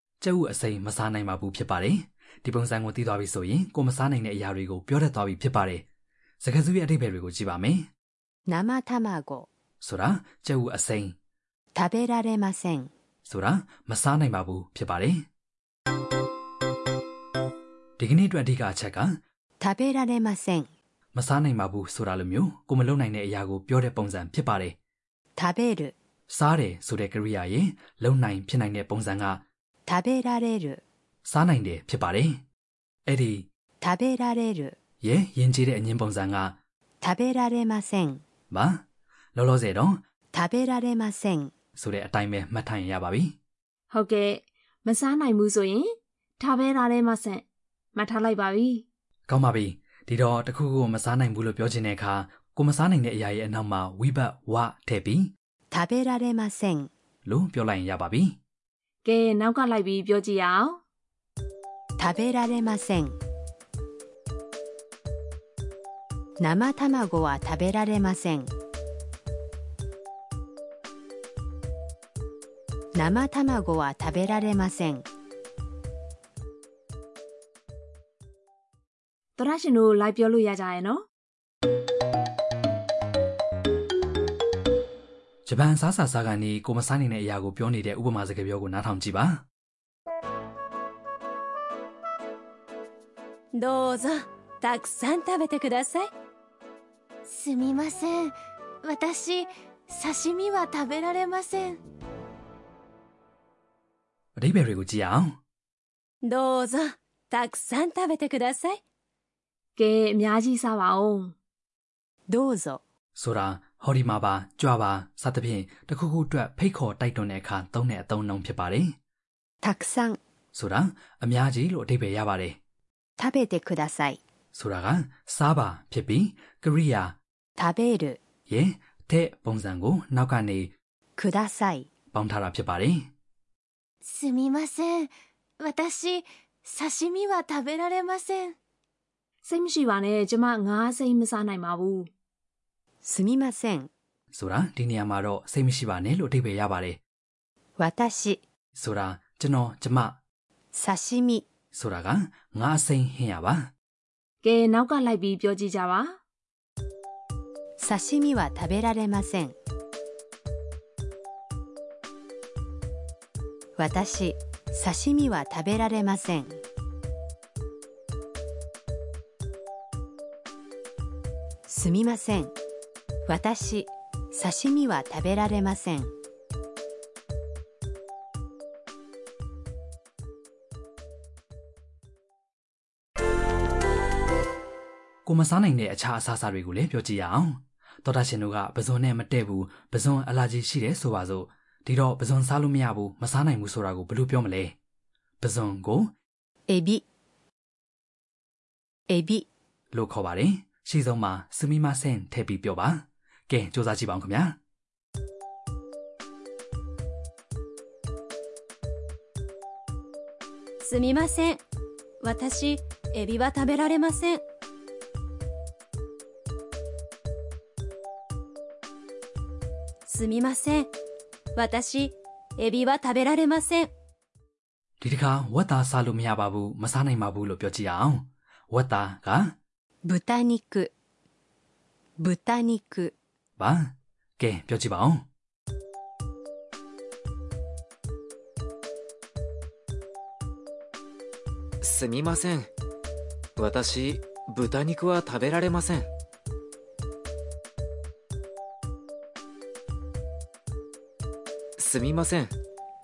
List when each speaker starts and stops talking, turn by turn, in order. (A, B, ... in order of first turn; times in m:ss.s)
0:00.2-0:05.8 A
0:06.4-0:07.9 A
0:08.5-0:09.5 B
0:09.8-0:11.1 A
0:11.7-0:12.9 B
0:13.3-0:15.2 A
0:18.0-0:19.2 A
0:19.6-0:20.7 B
0:21.1-0:24.8 A
0:25.4-0:25.9 B
0:26.3-0:29.4 A
0:29.9-0:30.8 B
0:31.2-0:32.4 A
0:33.1-0:33.5 A
0:33.8-0:34.8 B
0:35.0-0:36.6 A
0:37.0-0:38.2 B
0:38.5-0:38.8 A
0:39.3-0:40.0 A
0:40.3-0:41.5 B
0:41.8-0:43.4 A
0:43.9-0:48.8 C
0:49.3-0:55.3 A
0:55.7-0:56.9 B
0:57.2-0:58.4 A
0:59.0-1:00.8 C
1:02.0-1:03.1 B
1:06.4-1:08.5 B
1:12.9-1:15.0 B
1:19.4-1:21.0 C
1:25.4-1:29.4 A
1:33.5-1:36.1 D
1:37.3-1:41.8 E
1:44.4-1:45.4 A
1:46.2-1:48.8 D
1:49.8-1:51.3 C
1:52.3-1:52.8 B
1:53.2-1:59.0 A
1:59.6-2:00.2 B
2:00.5-2:02.6 A
2:03.2-2:04.2 B
2:04.5-2:07.2 A
2:07.6-2:08.2 B
2:08.5-2:10.7 A
2:11.2-2:11.9 B
2:12.1-2:13.1 A
2:14.0-2:18.6 E
2:19.4-2:22.1 C
2:23.0-2:23.9 B
2:24.3-2:27.0 A
2:27.8-2:28.4 B
2:28.7-2:30.2 A
2:30.7-2:31.5 B
2:31.7-2:33.7 A
2:34.4-2:36.2 C
2:37.8-2:39.6 B
2:43.8-2:46.6 B
2:51.7-2:52.5 B
2:53.2-2:56.1 B
3:05.2-3:14.7 A
3:15.4-3:16.1 A
3:16.7-3:17.0 B
3:19.1-3:19.4 B
3:19.9-3:24.6 A
3:30.8-3:31.6 D
3:32.2-3:34.4 D
3:40.1-3:40.9 D
3:41.5-3:43.9 D
3:45.0-3:49.6 A
3:50.0-3:50.9 B
3:52.2-3:53.1 B
3:53.6-3:55.2 A
4:01.8-4:02.7 F
4:03.6-4:06.1 F
4:11.8-4:12.5 F